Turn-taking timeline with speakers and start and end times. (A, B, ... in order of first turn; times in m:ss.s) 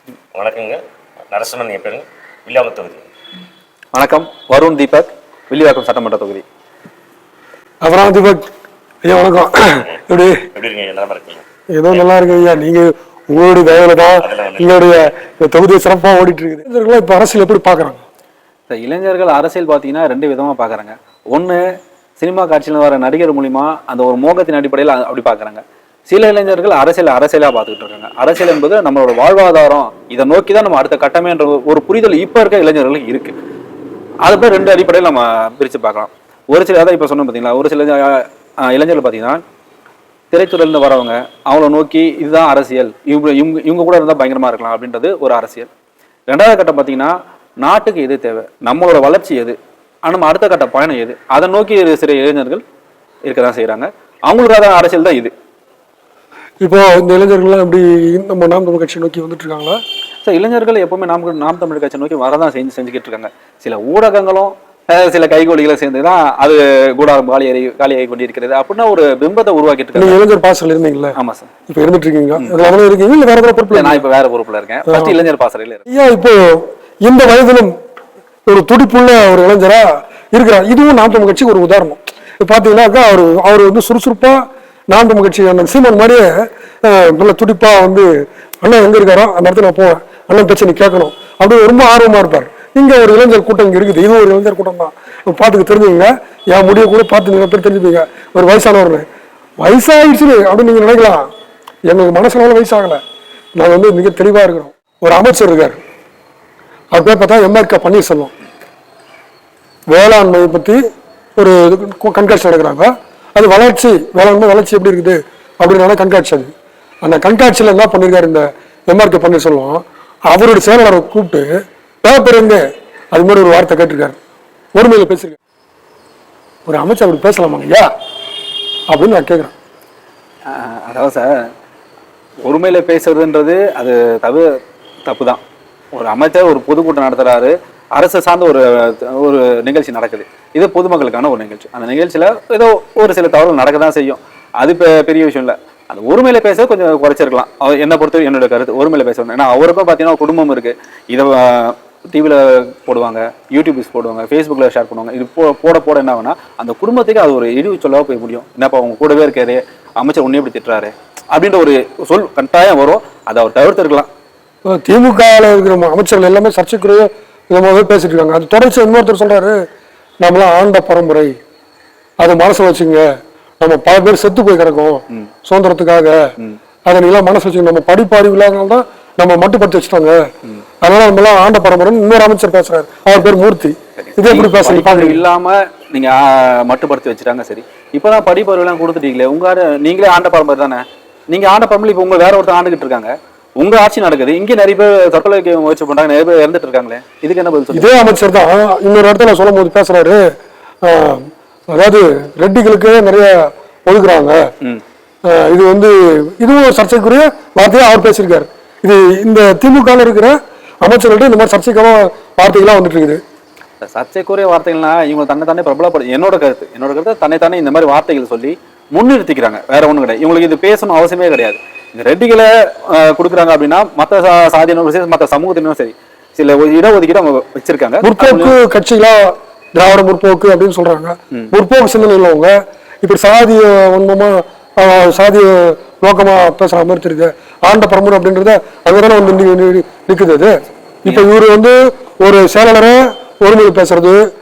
0:00.3-0:00.8 A
0:01.3-0:03.1 A
0:03.9-0:06.4 B
0:07.8-0:08.5 C
0:09.0-0:10.4 C
0:10.5-0:11.4 A
0:11.7-0:18.0 C
0:14.2-0:15.0 A
0:18.7-0:33.4 B
0:34.2-0:39.4 B
0:40.3-0:45.7 B
0:46.3-0:52.6 B
0:53.3-0:55.3 B
0:56.6-0:59.8 C
1:00.2-1:10.2 B
1:10.0-1:14.0 C
1:11.2-1:11.5 B
1:12.4-1:12.7 B
1:13.7-1:15.8 B
1:14.9-1:15.1 C
1:15.9-1:17.8 C
1:18.5-1:28.1 C
1:28.6-1:39.0 C
1:39.6-1:41.3 C
1:41.9-1:43.0 C
1:43.6-1:45.8 C
1:46.9-1:48.3 C
1:49.9-1:50.8 C
1:51.4-1:56.5 C
1:57.0-2:01.5 C
2:02.0-2:04.2 C
2:04.8-2:05.4 C
2:06.7-2:07.9 C
2:08.9-2:09.5 C
2:10.5-2:11.5 B
2:12.4-2:14.5 B
2:15.1-2:15.4 B
2:15.9-2:44.1 B
2:44.7-2:49.6 C
2:50.2-2:51.4 C
2:52.2-2:53.1 C
2:53.6-2:56.3 C
2:56.9-3:00.2 C
3:00.8-3:05.2 C
3:04.0-3:17.9 B
3:17.7-3:20.2 C
3:20.8-3:24.4 C
3:25.3-3:33.2 C
3:33.8-3:48.5 B
3:48.0-4:04.3 C